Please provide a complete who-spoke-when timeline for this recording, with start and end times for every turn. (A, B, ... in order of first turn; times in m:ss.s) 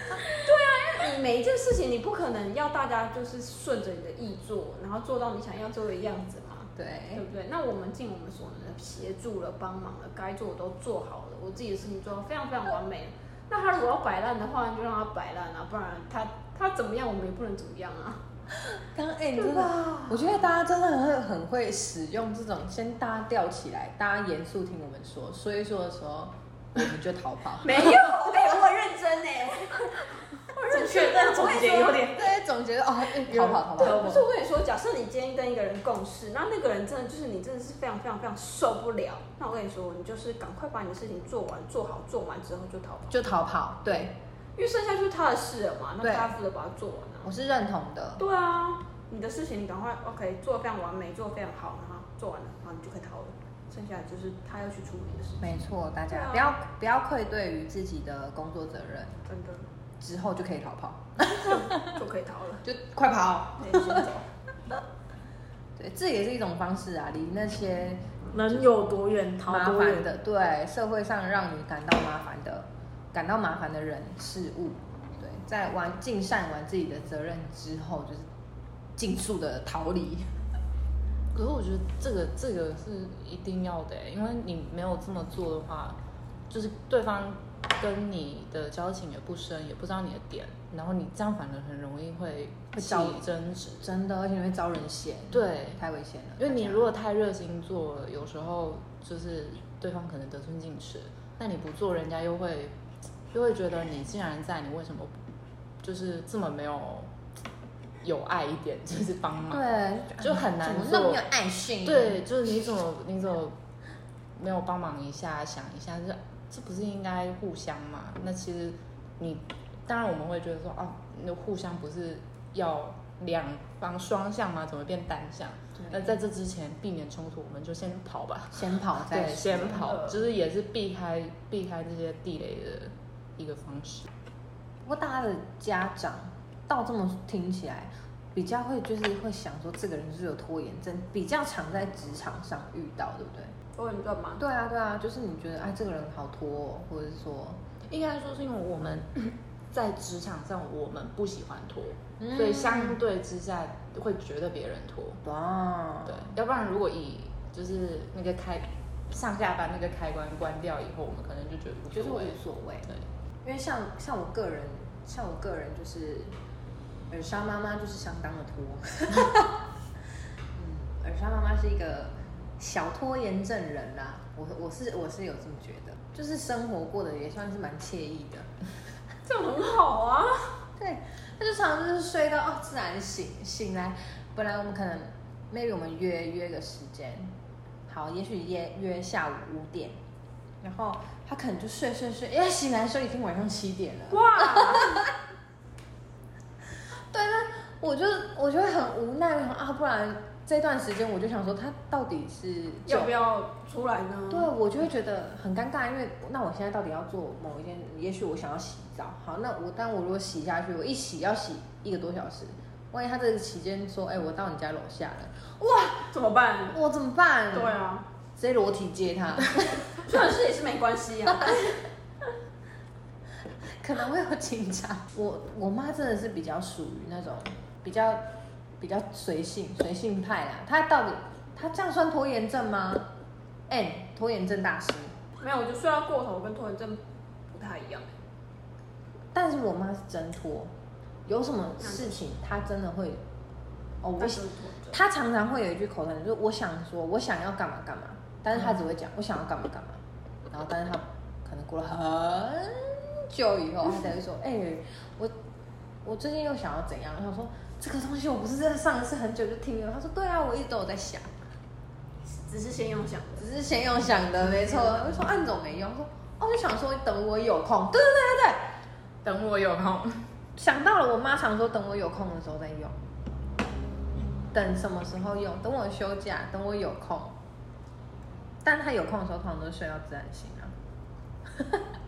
0:00.2-0:18.2 A
0:06.8-0:07.2 B
0:18.7-0:28.1 B
0:19.4-0:20.3 A
0:27.6-0:32.1 A
0:30.7-0:32.3 C
0:32.1-0:34.2 B
0:33.3-0:34.2 C
0:33.8-0:43.2 A
0:43.1-0:44.2 B
0:44.6-0:47.3 A
0:46.0-0:46.3 B
0:47.2-0:48.2 B
0:48.2-0:55.6 A
0:55.4-0:59.2 B
0:56.1-0:56.5 A
0:59.3-0:59.7 A
1:00.0-1:01.7 B
1:01.3-1:02.6 A
1:02.6-1:04.1 B
1:03.6-1:04.2 A
1:05.8-1:08.7 B
1:08.3-1:10.1 C
1:09.5-1:18.3 B
1:19.0-1:20.3 B
1:21.3-1:26.0 D
1:26.5-1:33.9 D
1:32.8-1:33.2 B
1:33.8-1:36.9 B
1:35.3-1:35.8 D
1:36.4-1:42.7 D
1:43.3-1:45.2 D
1:45.8-1:47.1 D
1:48.0-1:49.7 D
1:49.5-1:52.2 B
1:50.2-1:51.2 D
1:51.8-1:53.6 D
1:54.4-2:14.1 D
2:05.8-2:06.2 B
2:08.5-2:10.0 B
2:14.8-2:23.5 B
2:23.8-2:24.4 A
2:24.4-2:27.6 B
2:27.9-2:35.2 D
2:32.2-2:33.0 B
2:35.2-2:36.3 B
2:36.1-2:43.0 D
2:41.9-2:42.9 B
2:43.4-2:46.3 B
2:47.1-2:49.5 B
2:50.6-2:58.5 B
2:59.2-3:00.5 A
3:00.8-3:07.3 B
3:07.9-3:10.0 B
3:10.6-3:15.1 B
3:14.1-3:15.1 A
3:17.1-3:23.1 B
3:22.9-3:24.5 A
3:24.3-3:35.3 B
3:35.6-3:36.8 A
3:36.7-3:37.8 B
3:37.5-3:38.0 A
3:38.4-3:39.8 B
3:40.0-3:41.8 A
3:43.7-3:48.3 B
3:48.8-3:53.1 B
3:53.7-3:55.2 B
3:55.4-3:58.1 A
3:59.3-4:00.7 B
4:01.3-4:03.2 B
4:01.8-4:02.2 A
4:04.0-4:15.4 B
4:04.2-4:05.0 A
4:16.0-4:21.3 B
4:22.3-4:23.5 A
4:23.4-4:28.7 B
4:24.5-4:25.0 A
4:29.2-4:30.2 D
4:30.6-4:33.0 B
4:34.5-4:37.4 B
4:38.6-4:40.7 B
4:41.5-4:41.8 B